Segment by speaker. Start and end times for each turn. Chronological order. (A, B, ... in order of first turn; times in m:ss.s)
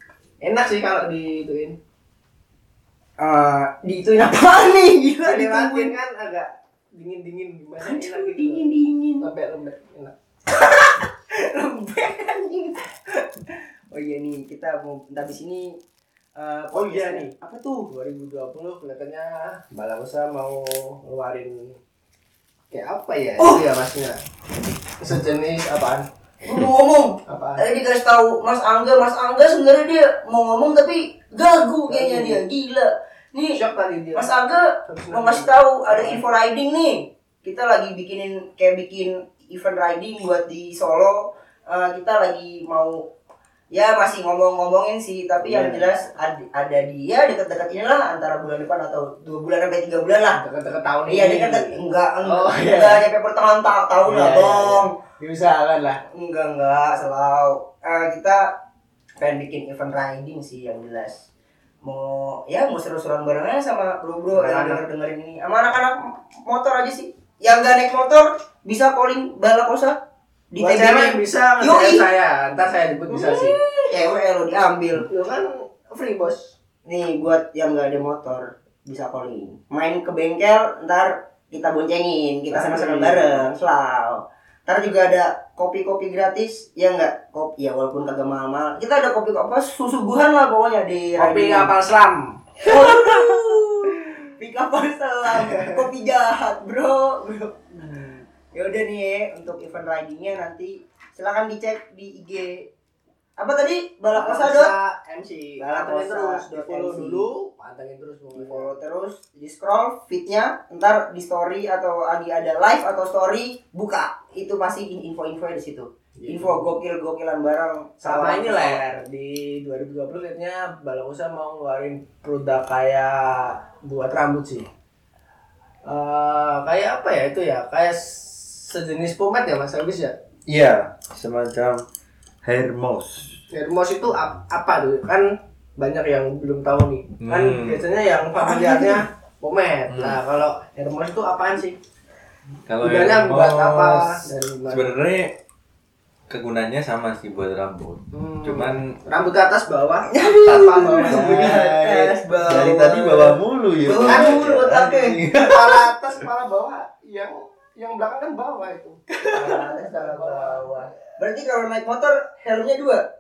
0:00.4-0:01.8 A
0:03.2-0:05.9 B
0:05.2-0:08.7 A
0:07.8-0:09.3 B
0:09.2-0:10.1 A
0:10.5-0:15.8 B
0:16.4-0:17.9 B
0:16.7-0:17.3 A
0:17.9-0:21.8 A
0:22.7-0:24.2 A
0:23.4-0:23.6 B
0:25.0-0:26.0 A
0:26.4-0:33.6 B
0:27.3-0:27.6 A
0:31.9-0:32.4 A
0:33.5-0:34.3 A
0:34.1-0:43.0 B
0:34.9-0:36.2 A
0:43.7-0:50.4 B
0:45.4-0:45.9 C
0:50.3-0:53.0 A
0:51.1-0:54.9 B
0:54.0-0:56.0 A
0:56.1-0:58.5 B
0:59.2-1:01.2 B
1:01.8-1:10.0 B
1:04.3-1:04.8 A
1:10.5-1:12.1 B
1:10.6-1:13.6 A
1:13.1-1:15.1 B
1:15.0-1:16.6 A
1:16.8-1:31.7 B
1:22.5-1:23.5 A
1:31.2-1:32.4 A
1:32.6-1:37.8 B
1:35.4-1:35.8 A
1:37.9-1:38.2 C
1:38.5-1:42.7 B
1:43.4-1:44.7 B
1:44.1-1:48.7 A
1:45.6-1:47.2 B
1:48.3-1:58.8 B
1:56.2-1:56.7 A
1:58.0-2:04.7 A
2:05.8-2:10.1 A
2:10.5-2:11.8 C
2:12.4-2:13.4 C
2:13.5-2:21.8 A
2:17.2-2:17.9 C
2:18.4-2:19.0 B
2:19.9-2:20.2 C
2:22.7-2:25.3 C
2:22.8-2:24.9 A
2:26.3-2:28.9 C
2:28.1-2:31.7 A
2:30.1-2:35.2 B
2:30.4-2:35.8 C
2:34.0-2:34.5 A
2:35.3-2:40.9 A
2:39.2-2:39.6 C
2:39.3-2:43.0 B